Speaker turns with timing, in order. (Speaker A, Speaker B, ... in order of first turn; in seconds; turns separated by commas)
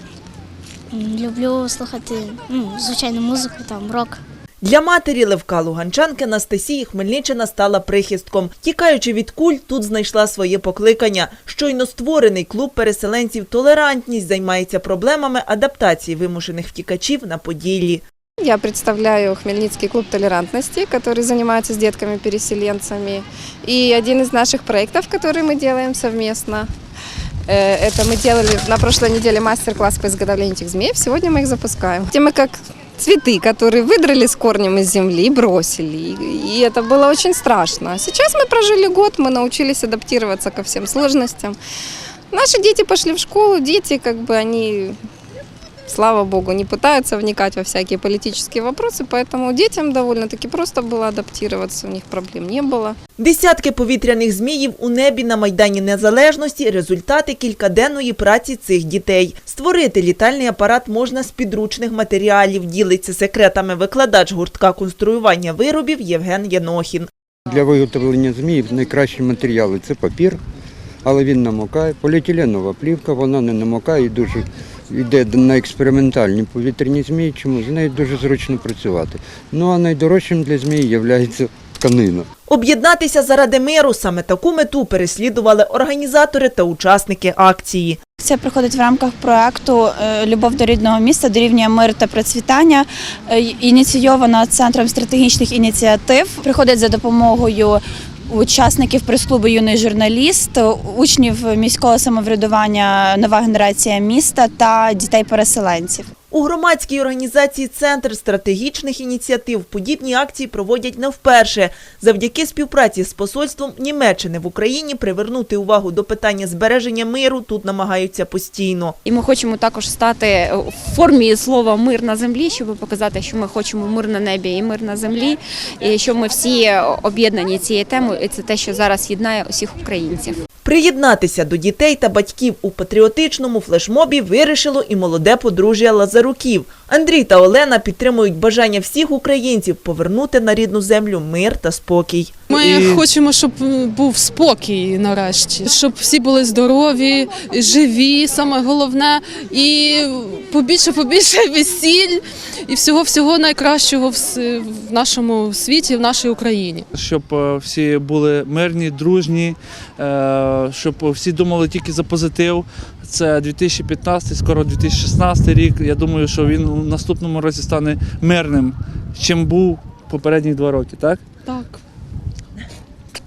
Speaker A: 0.9-4.2, Speaker B: 4.6-18.0, Speaker C: 18.4-26.7, Speaker C: 27.5-41.6, Speaker C: 42.3-45.0, Speaker C: 45.9-53.0, Speaker B: 53.2-67.1, Speaker D: 67.5-70.4, Speaker D: 71.0-82.3, Speaker B: 82.5-88.0, Speaker E: 88.2-106.1, Speaker B: 106.3-119.0, Speaker F: 119.0-130.4, Speaker B: 130.7-142.3, Speaker G: 142.5-156.9, Speaker H: 142.6-143.0, Speaker H: 156.9-171.2, Speaker G: 171.5-171.8